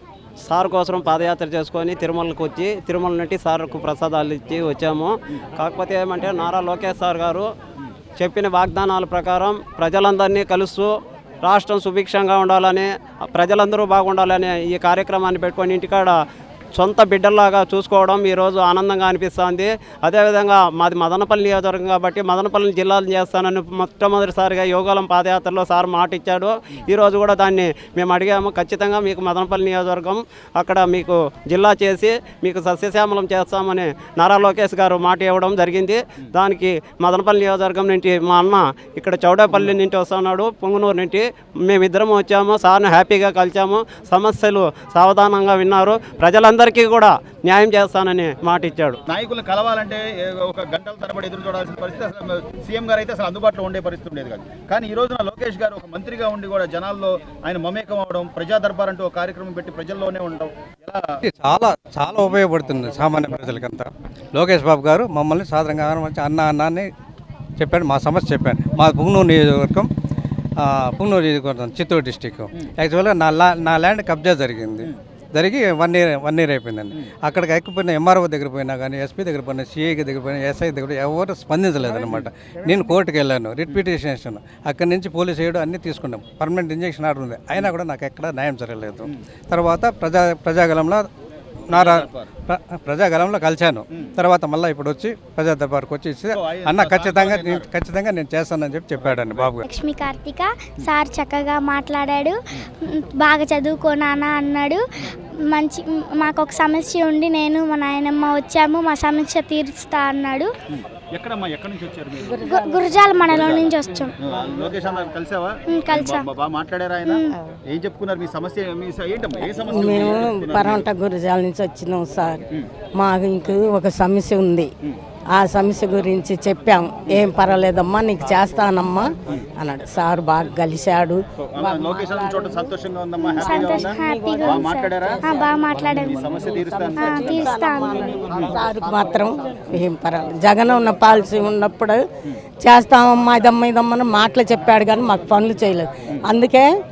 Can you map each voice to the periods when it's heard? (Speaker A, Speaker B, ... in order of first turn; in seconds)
Speaker A: 0.4-7.5, 8.2-16.2, 16.7-49.0
Speaker B: 49.1-61.2, 91.7-92.3, 96.3-97.7, 99.2-99.5, 110.7-113.8, 114.3-120.8, 131.5-135.2, 135.9-137.5, 138.3-138.6
Speaker C: 61.2-66.9, 67.6-69.9, 70.6-91.1, 91.7-99.7
Speaker D: 99.6-104.8, 105.5-110.5, 112.4-114.1, 115.7-116.2, 133.3-136.2, 137.0-138.2
Speaker E: 112.3-113.2, 119.5-122.4, 123.0-124.7, 125.3-132.7, 133.3-142.0, 142.6-146.7